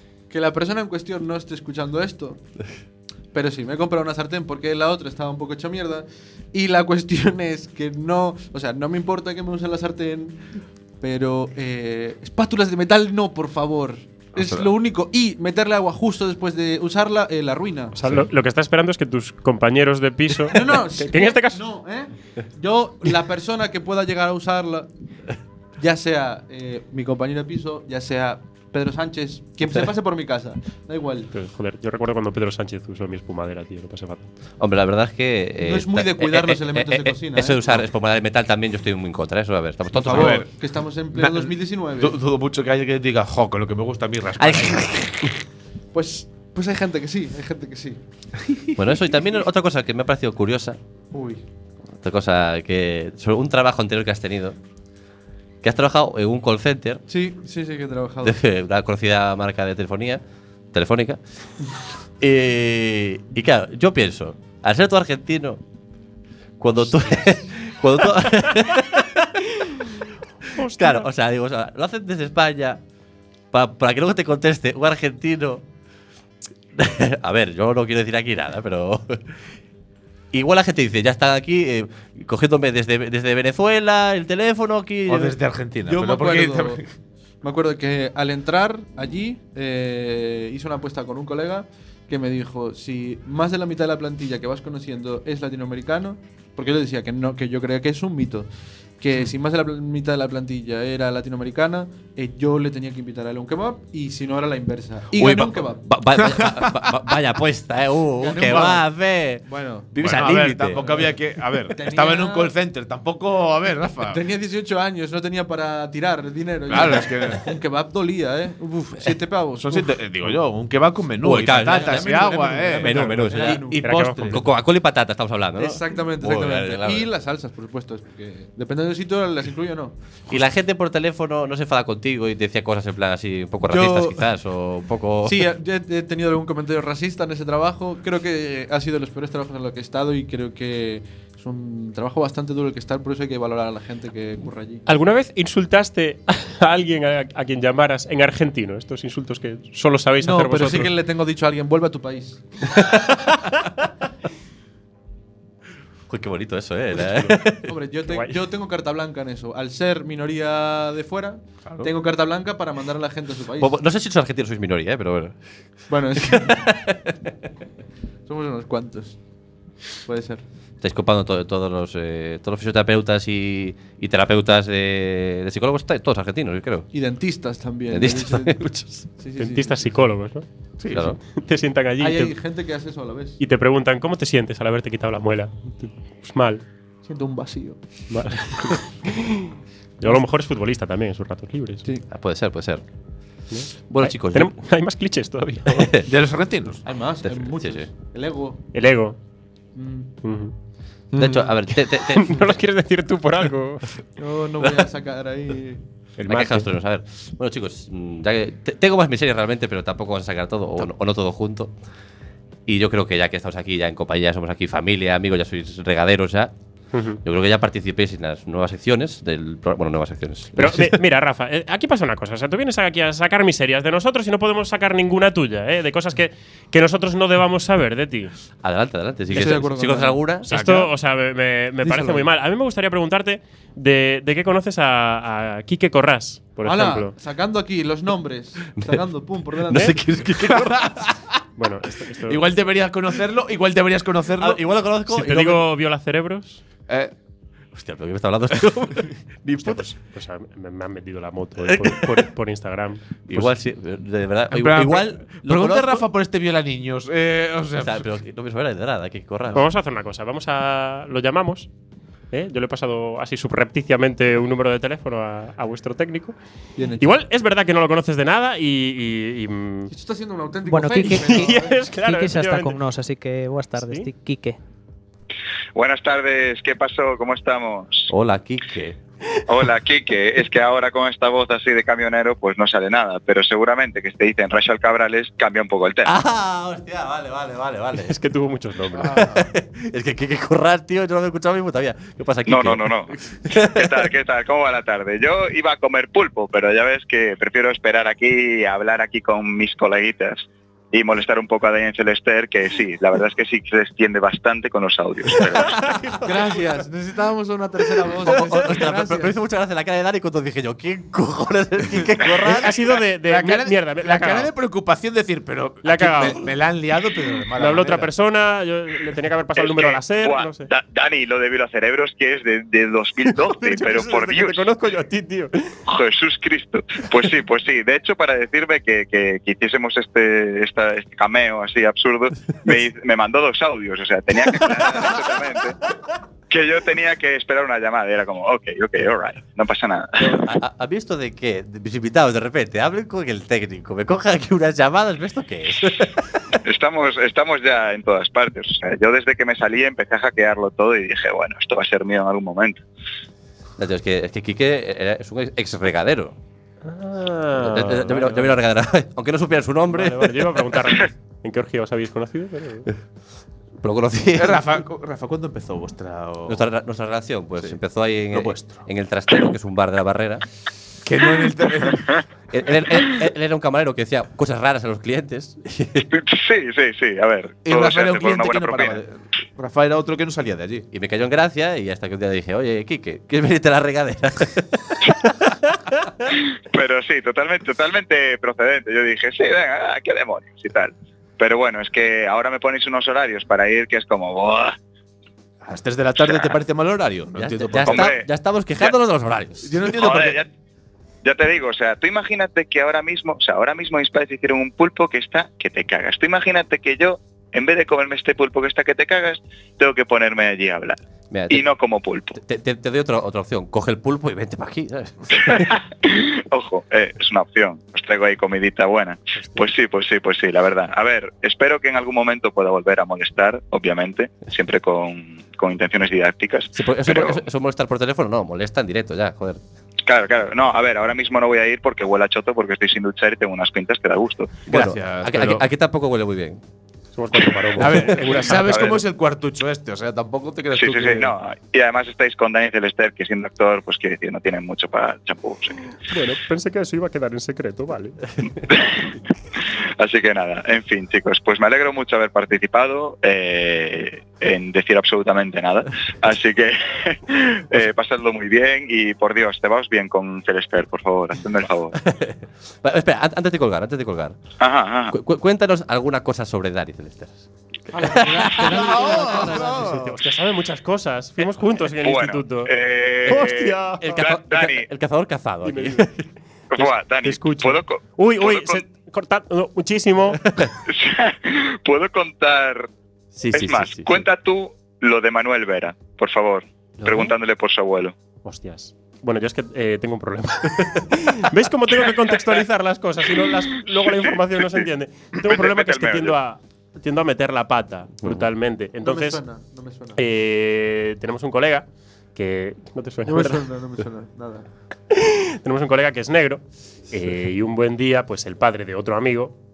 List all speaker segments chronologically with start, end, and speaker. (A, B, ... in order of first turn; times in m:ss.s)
0:00.3-0:02.4 A
0:03.3-0:10.4 A
0:11.0-0:18.0 A
0:14.4-0:14.7 B
0:18.0-0:21.6 C
0:20.5-0:24.9 A
0:25.8-0:31.3 A
0:31.3-0:34.3 C
0:34.6-0:40.4 D
0:35.6-0:37.8 A
0:40.0-0:42.2 A
0:40.0-0:40.5 B
0:41.1-0:45.3 B
0:44.4-0:45.3 D
0:45.9-0:48.0 A
0:48.8-0:50.8 D
0:51.1-0:51.4 A
0:52.0-0:54.6 D
0:55.6-0:57.0 D
0:57.1-0:58.4 A
0:58.2-1:00.2 D
1:00.7-1:01.2 D
1:02.2-1:05.6 D
1:06.6-1:09.7 D
1:10.5-1:11.1 C
1:10.6-1:12.8 D
1:13.5-1:15.6 D
1:16.7-1:19.2 D
1:20.3-1:25.4 D
1:25.1-1:26.8 B
1:25.9-1:26.8 A
1:27.4-1:38.5 A
1:39.0-1:45.8 A
1:45.1-1:50.8 D
1:46.2-1:47.0 B
1:48.2-1:48.9 A
1:49.4-1:49.9 A
1:50.0-1:54.2 B
1:50.8-1:51.1 A
1:51.7-1:52.5 A
1:54.1-2:00.0 A
1:56.7-1:57.5 B
1:59.6-2:04.5 B
2:01.2-2:07.1 D
2:01.6-2:03.8 A
2:03.8-2:04.3 C
2:05.6-2:10.0 A
2:10.3-2:15.4 D
2:13.7-2:14.2 A
2:15.2-2:24.8 A
2:24.9-2:30.9 C
2:30.2-2:32.4 A
2:32.8-2:33.4 C
2:36.1-2:37.7 D
2:37.7-2:43.8 A
2:43.6-2:45.4 D
2:45.9-2:46.6 A
2:46.3-2:47.1 D
2:48.3-2:49.2 A
2:50.0-2:50.4 A
2:50.8-2:56.9 D
2:56.9-2:59.9 A
2:57.9-2:59.0 D
2:59.4-3:00.4 C
3:00.8-3:01.2 B
3:00.9-3:01.2 D
3:01.3-3:02.4 C
3:02.0-3:03.4 A
3:03.4-3:06.6 C
3:07.0-3:07.8 A
3:08.1-3:11.8 C
3:12.1-3:12.8 D
3:13.5-3:16.0 C
3:13.9-3:14.5 D
3:15.7-3:16.0 D
3:16.1-3:16.8 B
3:16.8-3:18.6 A
3:17.2-3:17.9 D
3:18.7-3:19.2 C
3:19.8-3:20.1 A
3:20.2-3:20.5 C
3:21.2-3:22.6 D
3:21.9-3:24.0 C
3:24.2-3:25.8 A
3:26.2-3:26.7 C
3:26.3-3:31.7 D
3:32.7-3:36.5 D
3:36.9-3:37.2 C
3:37.2-3:40.8 D
3:40.6-3:48.3 C
3:48.6-3:50.5 D
3:49.3-3:50.2 A
3:50.4-3:57.1 C
3:50.5-3:50.9 B
3:51.8-3:52.3 A
3:56.6-4:00.0 A
3:59.7-4:01.1 D
4:00.4-4:01.2 B
4:01.6-4:02.5 C
4:02.3-4:04.6 B
4:04.4-4:05.7 D
4:05.1-4:06.6 C
4:06.9-4:07.1 B
4:07.7-4:09.9 D
4:09.6-4:13.5 C
4:11.6-4:12.2 D
4:13.3-4:16.0 D
4:14.5-4:18.1 B
4:17.8-4:19.6 D
4:19.5-4:21.7 C
4:22.3-4:26.4 C
4:26.8-4:27.2 A
4:27.0-4:29.9 C
4:29.9-4:31.8 A
4:30.7-4:34.6 E
4:31.0-4:32.8 C
4:33.8-4:34.1 C
4:35.8-4:38.1 F
4:38.1-4:39.0 D
4:39.5-4:46.1 F
4:46.0-4:48.2 D
4:48.0-4:49.3 C
4:49.0-4:54.1 D
4:49.0-4:49.4 B
4:52.5-5:05.8 F
5:05.6-5:06.2 D
5:06.2-5:09.3 A
5:08.2-5:12.7 D
5:12.5-5:14.5 C
5:13.2-5:18.1 B
5:15.8-5:16.5 C
5:17.6-5:20.7 C
5:19.6-5:24.6 F
5:23.3-5:25.7 C
5:25.9-5:35.8 F
5:36.5-5:40.4 F
5:40.2-5:46.4 D
5:46.7-5:52.8 F
5:53.8-5:56.4 D
5:56.8-5:58.6 C
5:57.6-6:00.6 D
5:59.9-6:02.9 C
6:03.8-6:04.6 D
6:04.4-6:06.6 B
6:06.5-6:10.4 D
6:07.6-6:08.8 B
6:11.0-6:12.2 B
6:12.5-6:16.1 D
6:16.1-6:19.0 F
6:17.6-6:20.9 B
6:20.9-6:25.6 D
6:26.7-6:34.8 F
6:35.6-6:38.1 B
6:37.4-6:39.8 D
6:37.8-6:38.2 F
6:39.6-6:40.4 B
6:40.0-6:40.5 F
6:41.2-6:51.0 F
6:51.3-6:51.6 D
6:51.5-6:52.4 F
6:52.4-6:55.7 D
6:55.3-7:07.4 F
7:06.8-7:09.6 D
7:10.1-7:14.6 F
7:14.7-7:16.6 D
7:14.7-7:15.6 B
7:17.1-7:18.9 C
7:17.8-7:21.3 B
7:18.6-7:19.0 F
7:20.7-7:25.8 F
7:26.1-7:28.2 C
7:28.7-7:29.1 F
7:30.0-7:42.0 F
7:42.0-7:44.4 D
7:44.6-7:45.2 F
7:45.1-7:47.5 D
7:47.9-7:49.9 A
7:48.0-7:49.1 D
7:48.6-7:50.2 B
7:49.4-7:52.7 C
7:52.0-7:54.9 F
7:53.3-7:54.2 C
7:53.3-7:56.1 D
7:55.6-7:56.1 C
7:56.7-7:58.8 F
7:56.8-8:00.4 C
8:00.4-8:00.7 D
8:00.9-8:02.9 F
8:03.4-8:04.3 D
8:03.5-8:08.1 F
8:08.4-8:19.4 C
8:14.0-8:14.9 F
8:15.4-8:16.4 F
8:19.0-8:20.2 A
8:20.2-8:23.7 C
8:23.3-8:24.7 A
8:25.1-8:29.5 C